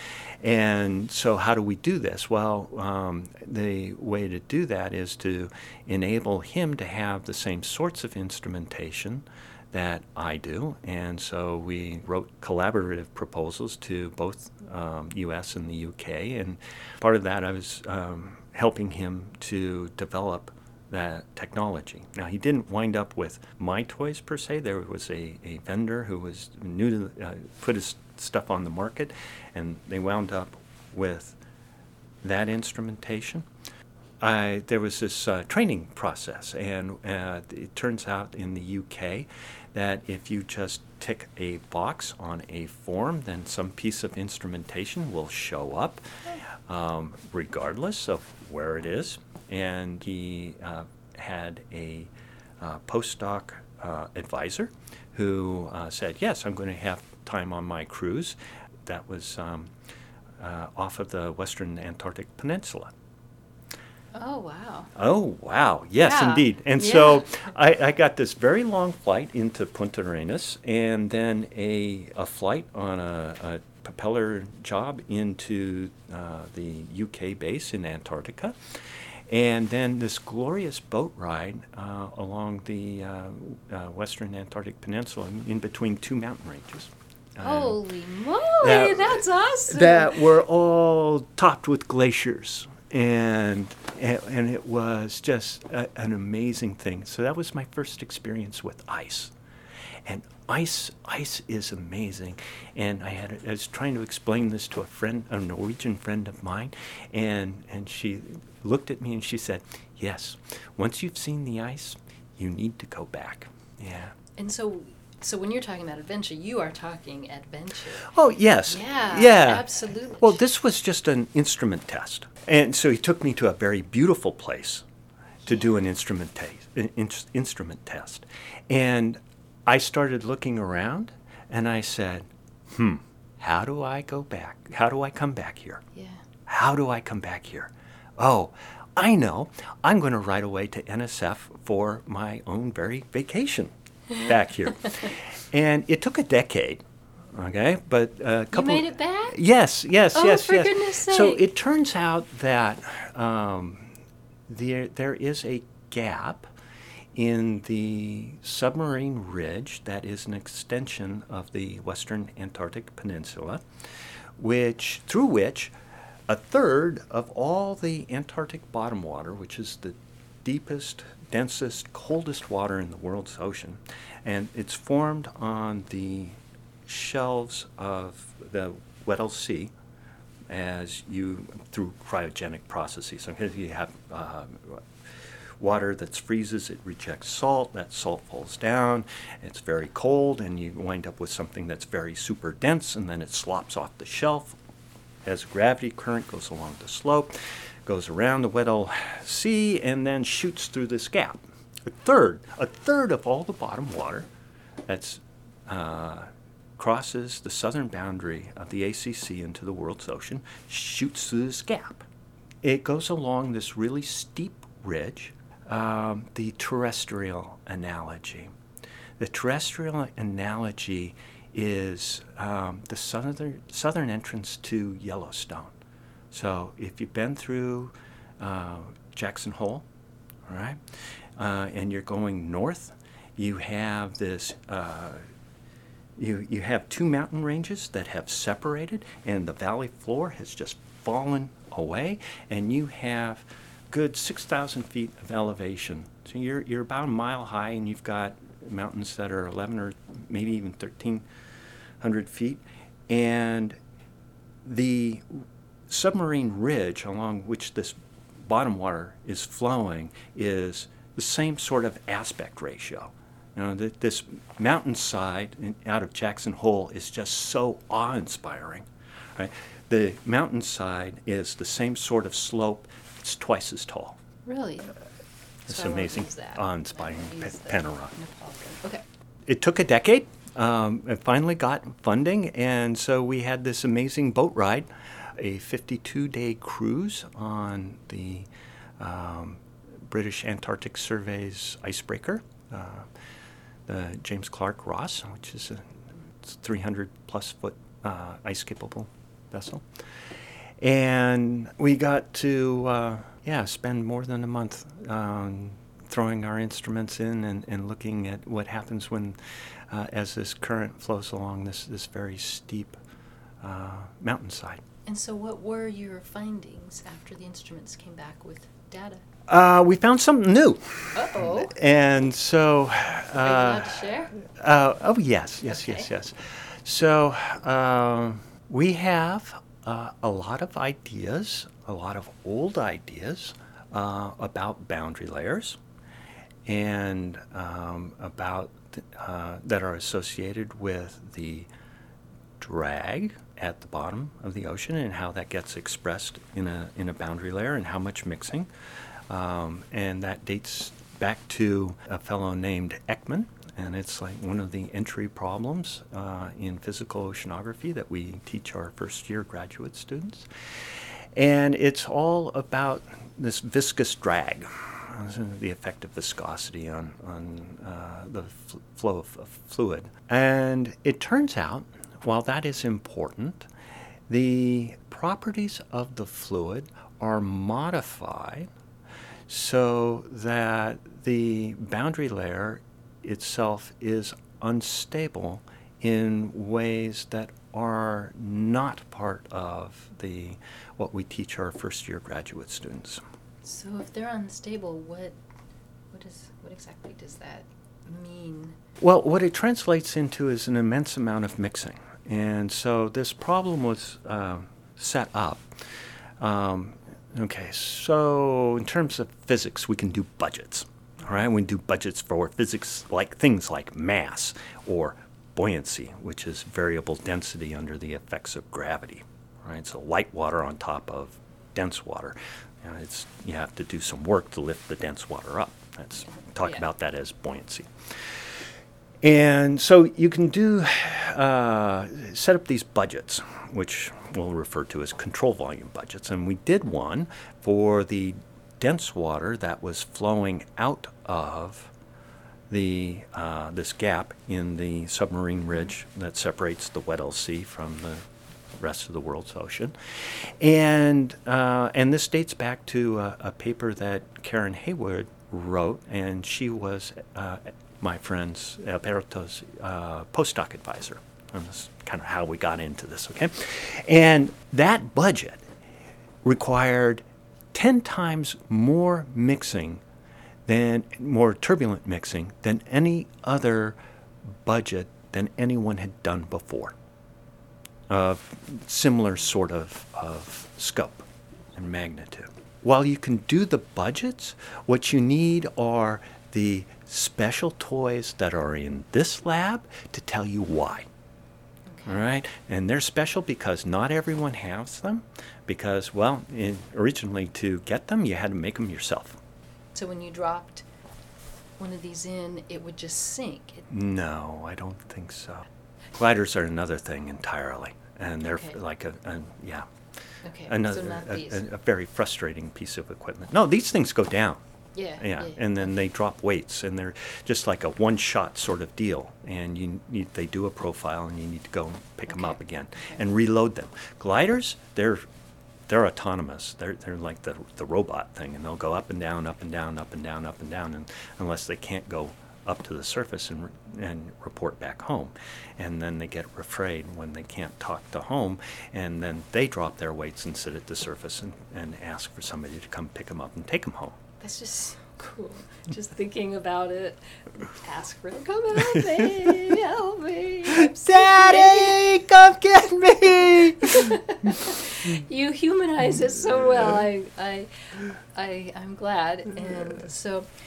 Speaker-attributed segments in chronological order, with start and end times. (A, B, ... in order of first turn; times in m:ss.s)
0:00.4-0:31.4 A
0:32.2-0:33.5 A
0:34.2-0:46.0 A
0:46.6-0:59.7 A
1:00.4-1:02.9 A
1:04.1-1:04.9 B
1:04.9-1:27.8 A
1:06.0-1:07.2 B
1:27.4-1:30.3 B
1:28.6-1:39.3 A
1:40.0-1:54.2 A
1:54.4-1:58.1 B
1:58.0-2:04.8 A
1:58.7-2:00.4 B
2:05.4-2:05.8 B
2:05.4-2:15.8 A
2:15.9-2:16.2 B
2:16.5-2:33.9 A
2:28.5-2:29.4 B
2:30.1-2:31.4 B
2:34.5-2:36.5 A
2:37.1-2:43.6 A
2:44.4-2:45.7 A
2:46.3-2:59.7 A
3:00.5-3:04.8 A
3:05.6-3:14.6 A
3:15.2-3:17.3 A
3:17.8-3:24.3 A
3:24.9-3:32.1 A
3:32.6-3:38.5 A
3:39.2-3:45.7 A
3:46.3-3:49.8 A
3:50.5-3:55.2 A
3:56.2-4:11.2 A
4:12.0-4:13.8 A
4:14.6-4:34.2 A
4:34.4-4:35.0 B
4:35.7-4:38.1 A
4:35.7-4:39.0 B
4:39.4-4:53.1 A
4:53.8-4:59.8 A
5:00.8-5:09.4 A
5:09.9-5:13.0 A
5:13.6-5:14.8 A
5:15.0-5:19.2 B
5:19.5-5:35.8 A
5:21.1-5:21.7 B
5:23.4-5:24.3 B
5:25.7-5:26.1 B
5:36.6-5:41.7 A
5:42.6-5:48.7 A
5:49.3-6:00.5 A
6:01.3-6:13.7 A
6:14.3-6:18.7 A
6:19.5-6:33.2 A
6:33.6-6:35.4 B
6:36.1-6:38.8 B
6:39.0-6:45.7 A
6:46.4-7:08.4 A
7:09.2-7:21.9 A
7:22.7-7:28.2 A
7:28.8-7:45.7 A
7:46.4-7:50.0 A
7:50.6-7:54.0 A
7:54.6-7:57.0 A
7:58.1-8:11.1 A
8:11.9-8:12.2 B
8:12.0-8:19.4 A
8:19.9-8:20.8 B
8:21.8-8:23.8 B
8:23.9-8:29.9 A
8:28.4-8:28.8 B
8:30.4-8:31.6 B
8:30.6-8:34.6 A
8:34.9-8:35.9 B
8:35.2-8:45.2 A
8:42.3-8:43.2 B
8:45.9-9:04.2 A
9:04.4-9:12.0 B
9:09.2-9:09.7 A
9:10.7-9:14.2 A
9:13.8-9:20.5 B